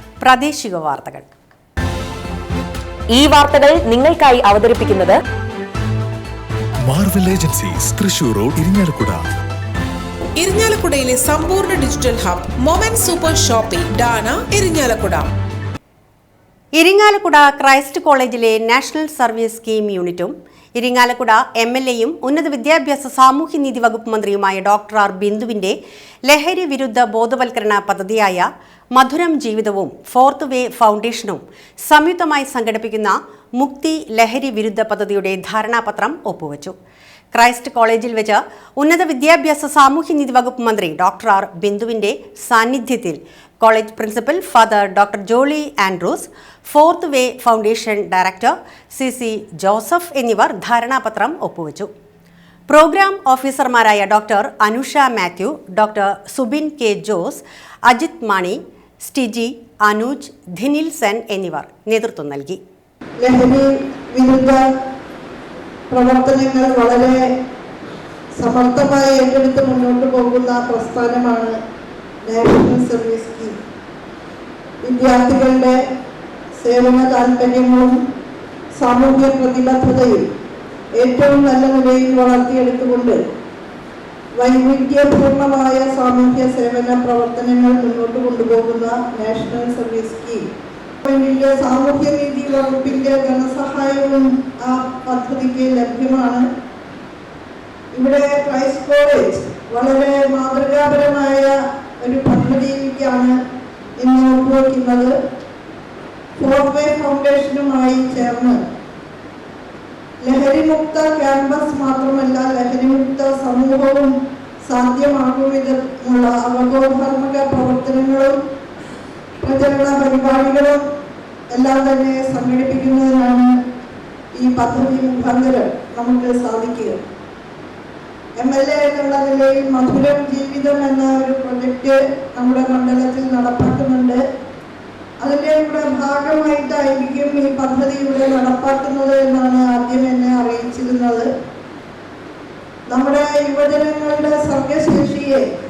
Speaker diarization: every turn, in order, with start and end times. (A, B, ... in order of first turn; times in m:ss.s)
0:00.2-0:01.3 A
0:03.1-0:05.2 B
0:06.8-0:09.2 C
0:10.4-0:15.3 D
0:16.8-0:25.7 A
0:26.3-0:28.4 A
0:29.0-0:36.7 A
0:37.3-0:51.9 A
0:52.7-1:02.6 A
1:03.2-1:03.6 E
1:04.2-1:04.6 E
1:05.9-1:07.2 E
1:08.4-1:11.5 E
1:12.3-1:13.5 E
1:14.9-1:15.7 E
1:16.6-1:17.9 E
1:18.8-1:20.2 E
1:21.0-1:23.2 E
1:24.4-1:30.4 E
1:31.1-1:36.4 E
1:37.9-1:41.5 E
1:42.1-1:43.3 E
1:44.0-1:45.1 E
1:46.4-1:48.6 E
1:50.2-1:54.1 E
1:54.7-1:58.3 E
1:59.4-2:00.8 E
2:01.5-2:03.4 E
2:04.4-2:06.9 E
2:08.4-2:14.2 E
2:15.2-2:21.2 E
2:22.9-2:25.4 E